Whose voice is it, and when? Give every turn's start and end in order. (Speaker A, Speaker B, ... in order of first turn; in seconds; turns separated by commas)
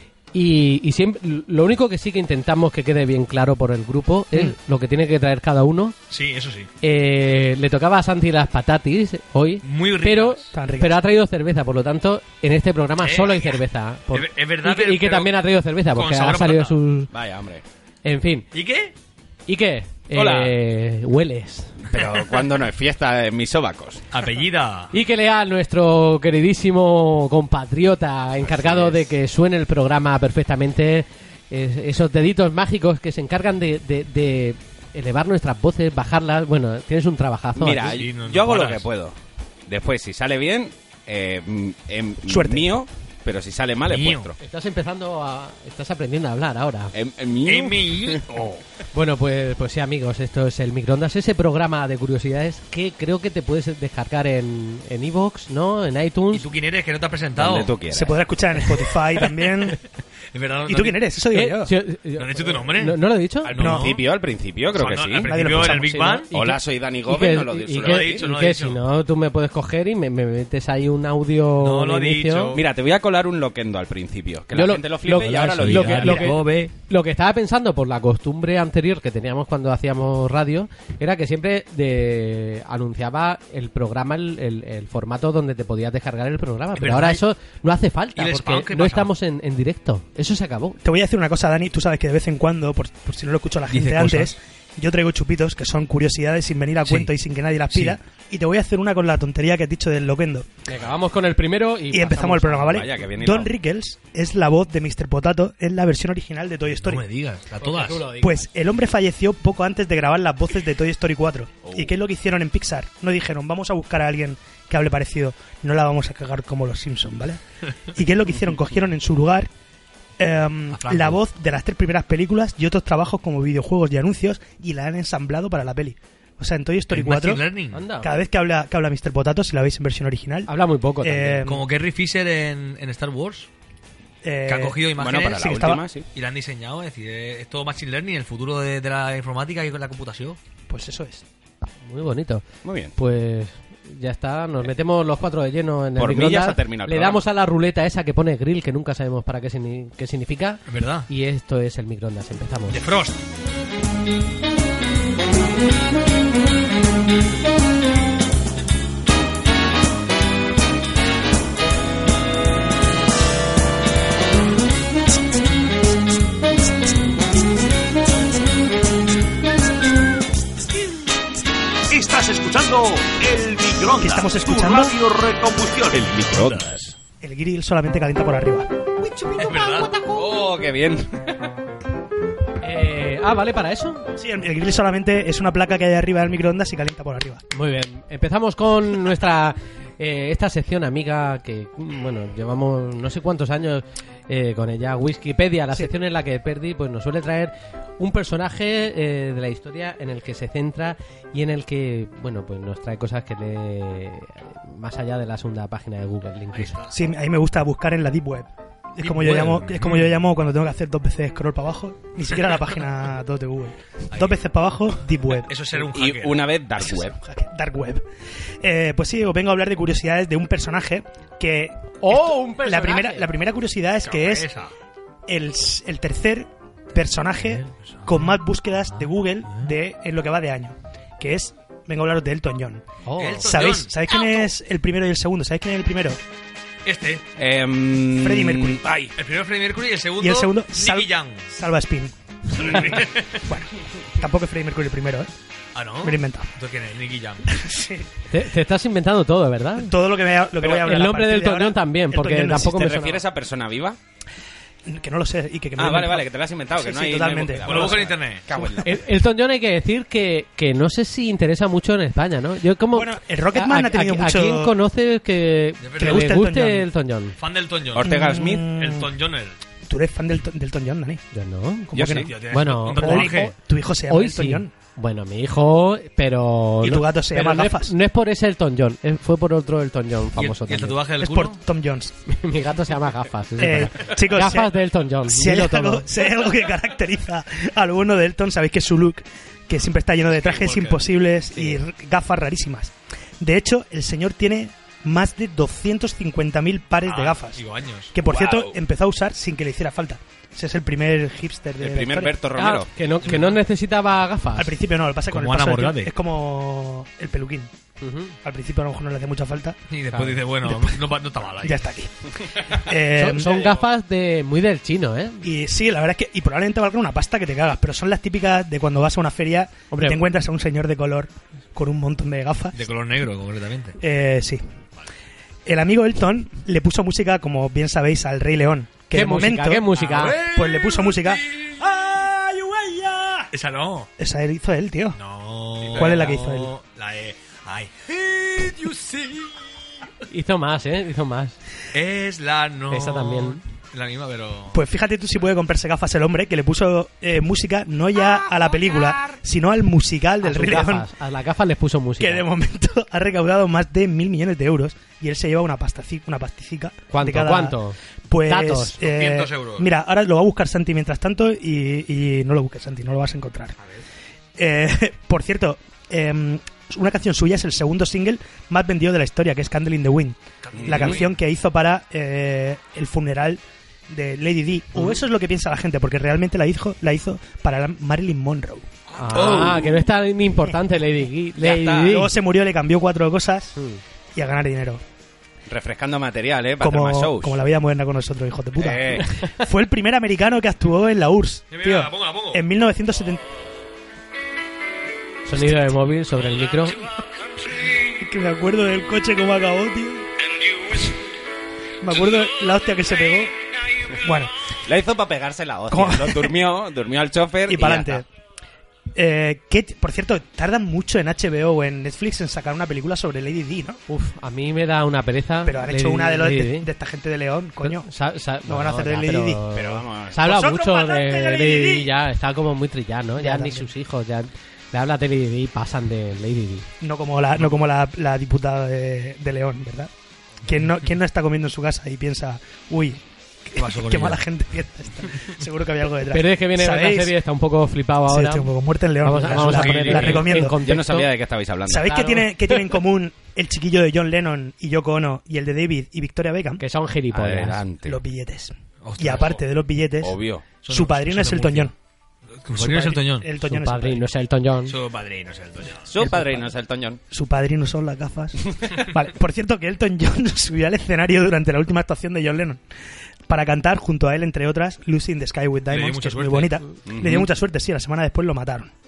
Speaker A: 0.3-5.9, Speaker B: 6.1-6.7, Speaker A: 6.8-17.1, Speaker B: 9.6-10.5, Speaker C: 10.5-11.0, Speaker B: 13.0-13.6, Speaker B: 14.1-15.3, Speaker B: 15.9-16.7, Speaker D: 17.1-17.6, Speaker A: 18.0-18.5, Speaker B: 18.5-18.9, Speaker A: 19.5-21.8, Speaker D: 20.1-20.6, Speaker D: 21.9-24.1, Speaker B: 24.1-24.9, Speaker A: 24.9-38.0, Speaker D: 28.4-29.0, Speaker D: 37.6-44.3, Speaker B: 37.8-38.9, Speaker C: 42.3-42.7, Speaker B: 43.9-44.3, Speaker A: 44.4-46.9, Speaker D: 46.9-48.2, Speaker B: 47.4-48.6, Speaker A: 48.9-56.5, Speaker B: 56.3-57.7, Speaker D: 57.4-58.2, Speaker C: 57.9-59.8, Speaker B: 58.9-59.5, Speaker B: 60.3-61.0, Speaker C: 60.7-61.7, Speaker A: 61.3-63.5, Speaker B: 62.2-64.0, Speaker D: 63.6-65.3, Speaker C: 63.6-63.9, Speaker B: 64.7-66.2, Speaker C: 65.3-65.8, Speaker A: 65.4-72.5, Speaker D: 66.3-68.2, Speaker B: 67.8-68.8, Speaker B: 71.6-72.6, Speaker D: 72.5-76.3, Speaker A: 74.5-90.8, Speaker B: 75.6-76.7, Speaker B: 86.8-87.2, Speaker B: 88.2-89.1, Speaker C: 90.8-100.5, Speaker B: 93.7-94.3, Speaker B: 96.8-97.1, Speaker B: 97.7-98.0, Speaker A: 100.7-102.8, Speaker C: 101.9-107.0, Speaker D: 102.6-103.5, Speaker B: 106.8-108.1, Speaker A: 107.6-108.5, Speaker C: 108.2-117.4, Speaker D: 111.6-111.9, Speaker C: 117.9-119.5, Speaker C: 120.2-127.4, Speaker B: 120.7-121.2, Speaker B: 126.9-127.8, Speaker A: 127.7-128.2, Speaker C: 128.0-130.5, Speaker A: 130.5-131.4, Speaker C: 131.0-131.6, Speaker B: 131.4-133.5, Speaker C: 134.2-135.8, Speaker B: 134.4-135.6, Speaker D: 135.0-136.1, Speaker B: 136.1-140.4, Speaker C: 140.7-141.2, Speaker A: 141.8-142.4, Speaker D: 142.6-142.9, Speaker A: 142.9-152.8, Speaker D: 145.9-147.2, Speaker B: 150.7-151.1, Speaker B: 152.7-153.2, Speaker E: 171.9-176.1, Speaker C: 174.0-174.9, Speaker D: 175.9-176.9, Speaker C: 177.2-178.7, Speaker B: 179.3-180.0, Speaker D: 180.0-181.3, Speaker A: 182.6-184.1, Speaker C: 184.2-187.4, Speaker A: 187.5-206.8, Speaker B: 206.5-207.0, Speaker C: 206.9-215.5, Speaker B: 209.0-210.2, Speaker B: 214.1-214.4, Speaker B: 215.4-216.5, Speaker D: 215.7-217.2, Speaker C: 216.8-218.0, Speaker C: 218.6-224.5, Speaker A: 222.0-223.3, Speaker B: 224.0-224.7, Speaker C: 225.3-232.8, Speaker B: 228.0-228.4, Speaker A: 233.0-233.5, Speaker B: 233.2-234.4, Speaker C: 233.4-236.2, Speaker B: 236.8-237.2, Speaker D: 237.4-239.1, Speaker C: 238.2-238.8, Speaker B: 239.2-241.5, Speaker C: 240.2-245.3, Speaker B: 242.5-243.5, Speaker B: 245.7-247.5, Speaker C: 246.0-246.5, Speaker C: 247.5-248.1, Speaker A: 248.3-249.9, Speaker C: 249.8-252.7, Speaker D: 250.6-250.9, Speaker A: 250.8-253.2, Speaker D: 252.5-254.0, Speaker C: 254.8-258.7, Speaker D: 255.8-259.0, Speaker B: 257.6-258.4, Speaker A: 258.8-267.4, Speaker C: 262.9-264.7, Speaker B: 265.8-266.4, Speaker C: 266.0-266.9, Speaker B: 267.4-269.6, Speaker D: 267.9-268.7, Speaker C: 268.0-269.1, Speaker C: 269.9-271.2, Speaker A: 271.3-273.6, Speaker C: 271.9-272.3, Speaker D: 271.9-272.3, Speaker B: 272.2-273.5, Speaker C: 272.9-274.7, Speaker A: 274.1-281.0, Speaker C: 276.8-277.9, Speaker B: 280.4-281.6, Speaker C: 281.2-282.1, Speaker A: 282.3-286.1, Speaker C: 283.6-284.8, Speaker C: 285.3-297.6, Speaker B: 290.3-291.0, Speaker B: 297.0-298.1, Speaker C: 298.1-302.3, Speaker D: 298.2-298.8, Speaker D: 301.8-302.9, Speaker A: 302.5-304.7, Speaker B: 303.2-303.6, Speaker C: 304.6-307.7, Speaker B: 305.3-306.1, Speaker A: 308.0-308.3, Speaker C: 308.4-309.8, Speaker B: 309.9-311.8, Speaker A: 310.1-310.4, Speaker C: 310.7-310.9, Speaker C: 311.6-313.6, Speaker A: 313.1-315.4, Speaker C: 315.4-322.8, Speaker A: 319.9-320.2, Speaker B: 322.7-324.0, Speaker C: 324.0-324.6, Speaker C: 325.6-333.5, Speaker A: 329.1-330.4, Speaker B: 329.9-331.8, Speaker B: 333.5-334.1, Speaker C: 334.2-335.2, Speaker B: 335.1-339.9, Speaker C: 335.9-336.7, Speaker A: 340.3-341.6, Speaker B: 341.9-344.8, Speaker A: 342.9-343.6, Speaker C: 344.7-351.1, Speaker A: 350.4-352.5, Speaker C: 352.2-357.8, Speaker A: 357.1-359.0, Speaker C: 358.3-363.7, Speaker B: 359.0-359.9, Speaker B: 363.8-364.0, Speaker C: 364.6-378.9, Speaker B: 370.6-371.3, Speaker D: 370.7-371.2, Speaker B: 379.1-379.9, Speaker A: 379.2-382.3, Speaker D: 379.4-379.9, Speaker D: 381.6-382.2, Speaker C: 382.0-383.7, Speaker A: 383.8-384.0, Speaker C: 384.3-385.0, Speaker D: 385.7-387.6, Speaker C: 386.8-393.5, Speaker D: 388.8-389.3, Speaker B: 391.7-392.6, Speaker A: 395.4-397.0, Speaker C: 398.2-400.3, Speaker C: 402.0-403.5, Speaker C: 404.2-404.5, Speaker D: 404.8-408.2, Speaker C: 405.9-406.5, Speaker C: 407.7-408.2, Speaker C: 409.1-414.0, Speaker A: 414.1-416.9, Speaker C: 415.6-418.1, Speaker A: 417.8-426.9, Speaker C: 418.6-419.6, Speaker D: 419.7-420.5, Speaker C: 420.4-422.1, Speaker C: 423.4-423.9, Speaker C: 427.0-430.1, Speaker C: 430.6-437.3, Speaker B: 433.8-434.4, Speaker A: 436.3-438.7, Speaker C: 438.3-440.8, Speaker A: 439.2-441.3, Speaker B: 439.4-440.6, Speaker D: 440.8-442.2, Speaker C: 441.9-446.8, Speaker A: 441.9-442.9, Speaker A: 446.8-447.8, Speaker D: 447.3-448.2, Speaker C: 448.1-450.4, Speaker B: 449.0-449.6, Speaker D: 450.2-450.6, Speaker B: 450.8-451.9, Speaker C: 450.9-451.9, Speaker B: 452.6-453.5, Speaker C: 452.8-454.2, Speaker A: 453.6-455.0, Speaker B: 454.9-456.1, Speaker D: 456.1-457.2, Speaker A: 456.2-456.6, Speaker C: 457.3-462.8, Speaker C: 463.5-468.9, Speaker B: 465.9-466.8, Speaker D: 467.1-467.5